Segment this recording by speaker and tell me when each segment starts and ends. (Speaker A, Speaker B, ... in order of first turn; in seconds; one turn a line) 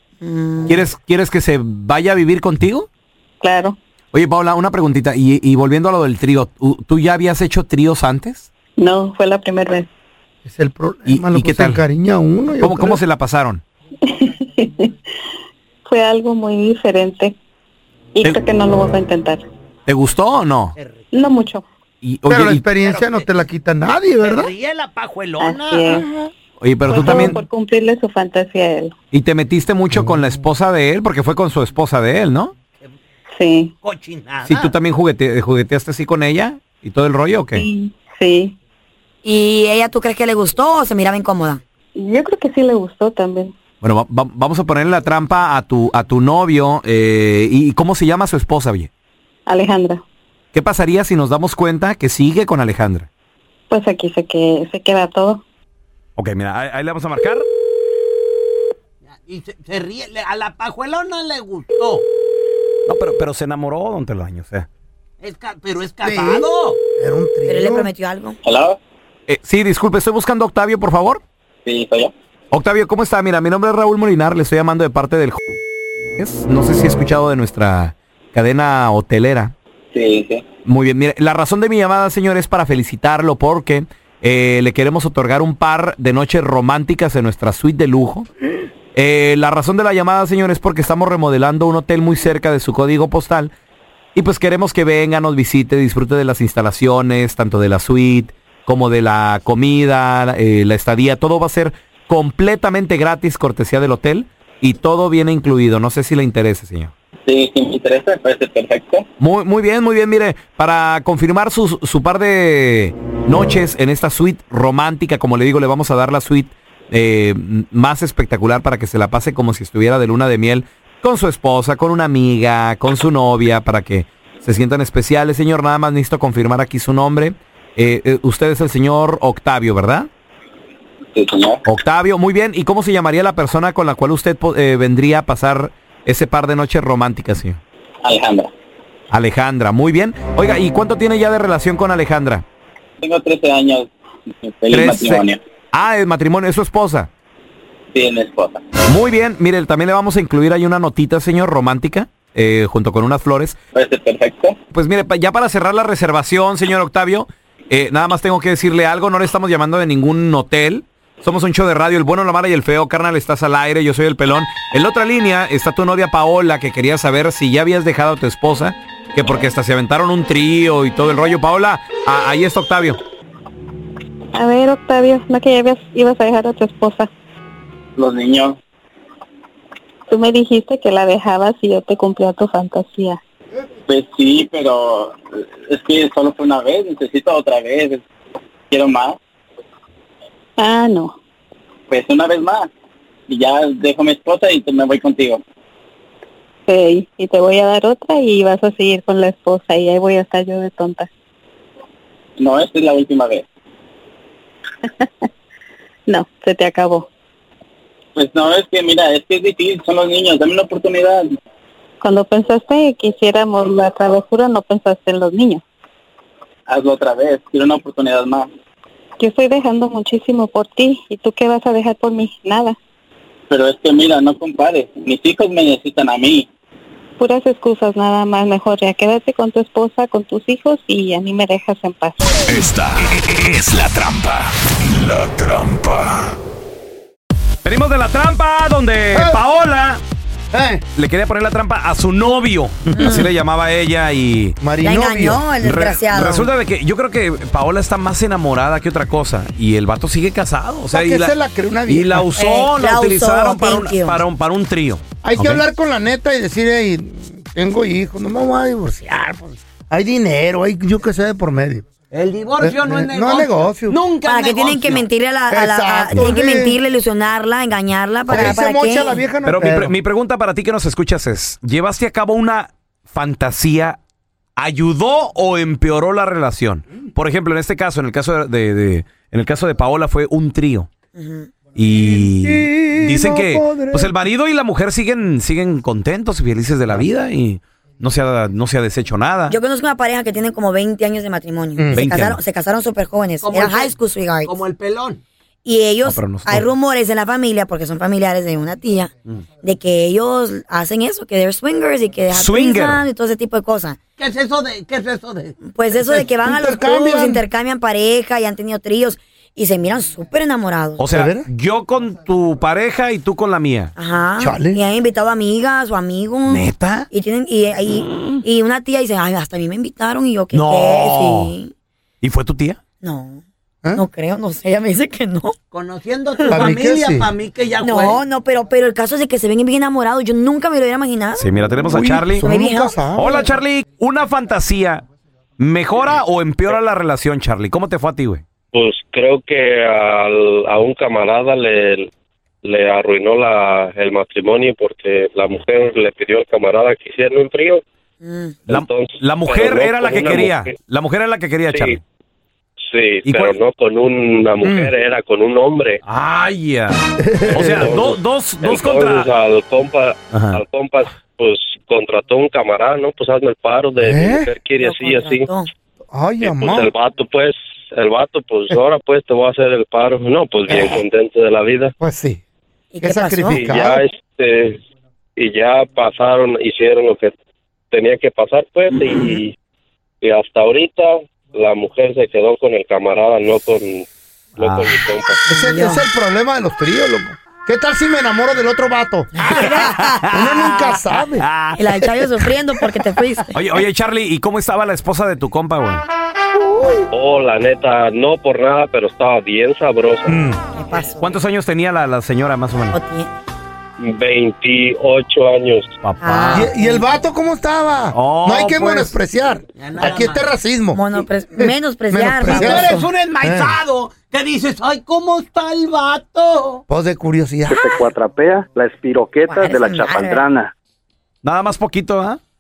Speaker A: 0.2-0.8
Speaker B: 0.7-2.9
Speaker C: 3.4-3.8
Speaker B: 4.1-8.5
Speaker C: 8.8-9.9
Speaker D: 10.4-13.0
Speaker B: 11.1-11.8
Speaker B: 12.6-13.6
Speaker C: 14.1-14.9
Speaker C: 15.9-17.4
Speaker C: 18.2-19.5
Speaker B: 19.9-20.8
Speaker C: 21.1-21.6
Speaker B: 22.0-22.7
Speaker D: 22.3-24.5
Speaker E: 22.9-23.2
Speaker E: 24.3-25.9
Speaker C: 25.4-26.1
Speaker D: 25.9-26.3
Speaker B: 26.6-27.4
Speaker C: 26.9-28.9
Speaker D: 27.1-27.4
Speaker B: 29.1-32.5
Speaker D: 29.9-30.3
Speaker C: 33.4-33.7
Speaker E: 33.8-34.7
Speaker B: 34.4-37.7
Speaker C: 37.5-38.5
Speaker A: 39.2-41.6
Speaker C: 42.0-43.5
Speaker B: 43.8-48.9
Speaker C: 49.5-50.0
Speaker B: 50.5-53.1
Speaker C: 53.7-55.4
Speaker B: 56.2-57.5
Speaker E: 59.2-62.0
Speaker B: 62.9-64.7
Speaker E: 65.2-66.8
Speaker D: 66.0-67.9
Speaker A: 67.5-68.4
Speaker F: 68.4-68.8
Speaker B: 69.3-71.2
Speaker F: 71.7-72.1
Speaker B: 72.5-75.4
Speaker B: 76.2-79.5
Speaker F: 79.9-80.4
Speaker B: 80.7-88.3
Speaker B: 89.0-93.5
Speaker B: 94.2-106.9
Speaker F: 107.3-109.0
Speaker B: 109.2-130.1
Speaker F: 131.1-131.6
Speaker B: 131.7-137.6
Speaker F: 138.0-138.5
Speaker B: 139.1-142.4
Speaker F: 143.0-143.9
Speaker F: 144.4-145.4
Speaker B: 144.7-147.1
Speaker F: 147.9-148.6
Speaker B: 148.9-153.6
Speaker F: 153.8-154.6
Speaker B: 154.7-173.0
Speaker C: 174.3-177.1
Speaker F: 178.0-178.6
Speaker C: 180.1-183.2
Speaker F: 183.9-188.0
Speaker F: 188.7-189.2
Speaker C: 190.6-191.2
Speaker F: 191.9-192.7
Speaker F: 193.3-195.4
Speaker C: 196.7-201.1
Speaker F: 202.4-203.4
Speaker C: 206.1-207.1
Speaker F: 208.2-211.2
Speaker C: 212.0-215.6
Speaker F: 216.7-218.5
Speaker C: 219.2-222.8
Speaker F: 223.5-226.5
Speaker C: 227.2-232.4
Speaker G: 232.5-236.2
Speaker B: 237.7-240.0
Speaker D: 239.1-239.4
Speaker D: 240.5-240.8
Speaker B: 241.0-244.6
Speaker A: 242.9-243.3
Speaker D: 244.6-245.5
Speaker A: 244.8-246.5
Speaker B: 245.5-251.3
Speaker D: 250.9-252.3
Speaker B: 251.9-255.6
Speaker A: 252.3-254.2
Speaker D: 255.2-261.9
Speaker E: 262.1-265.1
Speaker D: 262.6-264.0
Speaker A: 264.2-269.2
Speaker D: 265.5-266.8
Speaker D: 268.3-269.9
Speaker B: 269.4-274.0
Speaker B: 274.6-280.9
Speaker A: 281.1-281.6
Speaker B: 281.7-289.6
Speaker D: 282.0-284.1
Speaker A: 289.5-294.5
Speaker D: 291.8-292.0
Speaker B: 291.9-292.4
Speaker E: 293.4-293.9
Speaker E: 294.5-295.2
Speaker A: 295.6-299.1
Speaker B: 296.1-296.7
Speaker A: 299.6-304.0
Speaker B: 302.3-303.1
Speaker E: 304.2-305.5
Speaker A: 305.6-311.1
Speaker D: 305.9-307.4
Speaker B: 311.0-313.9
Speaker D: 311.1-311.5
Speaker A: 314.0-321.7
Speaker D: 314.4-314.8
Speaker B: 316.5-317.1
Speaker B: 320.5-321.6
Speaker B: 322.2-322.8
Speaker A: 323.0-323.4
Speaker A: 323.9-325.6
Speaker E: 325.7-328.2
Speaker A: 326.4-326.7
Speaker D: 326.4-327.3
Speaker A: 327.8-331.5
Speaker B: 331.4-332.4
Speaker D: 331.8-333.5
Speaker A: 332.4-333.4
Speaker B: 333.1-335.0
Speaker B: 335.6-338.4
Speaker H: 338.7-342.1
Speaker H: 342.6-347.8
Speaker A: 348.2-348.7
Speaker H: 348.7-350.7
Speaker B: 348.7-352.0
Speaker H: 351.7-352.0
Speaker H: 352.9-356.0
Speaker B: 353.2-353.6
Speaker D: 354.6-354.9
Speaker B: 356.1-359.3
Speaker D: 357.2-357.9
Speaker H: 357.6-365.5
Speaker B: 360.3-360.6
Speaker D: 364.0-364.6
Speaker A: 364.8-365.7
Speaker D: 366.1-366.9
Speaker H: 366.4-371.9
Speaker D: 370.7-371.0
Speaker D: 372.0-372.4
Speaker A: 372.9-373.7
Speaker D: 373.0-374.0
Speaker H: 373.6-374.8
Speaker H: 375.4-377.3
Speaker H: 377.9-379.5
Speaker A: 378.9-379.4
Speaker H: 380.2-384.1
Speaker H: 384.6-385.4
Speaker B: 384.6-385.0
Speaker A: 385.5-386.1
Speaker D: 385.5-389.5
Speaker A: 389.4-391.0
Speaker B: 389.4-392.9
Speaker D: 390.3-391.5
Speaker A: 391.8-393.7
Speaker B: 393.4-396.0
Speaker D: 396.7-397.1
Speaker H: 397.1-400.3
Speaker A: 400.8-401.4
Speaker B: 401.2-403.0
Speaker A: 402.9-403.3
Speaker H: 404.0-405.9
Speaker B: 406.0-406.7
Speaker A: 406.2-407.0
Speaker D: 406.5-413.8
Speaker B: 408.1-409.2
Speaker E: 409.8-410.4
Speaker A: 410.9-413.1
Speaker E: 412.8-416.8
Speaker D: 416.9-417.8
Speaker A: 417.7-418.1
Speaker H: 417.8-420.7
Speaker A: 419.4-420.5
Speaker B: 421.4-422.4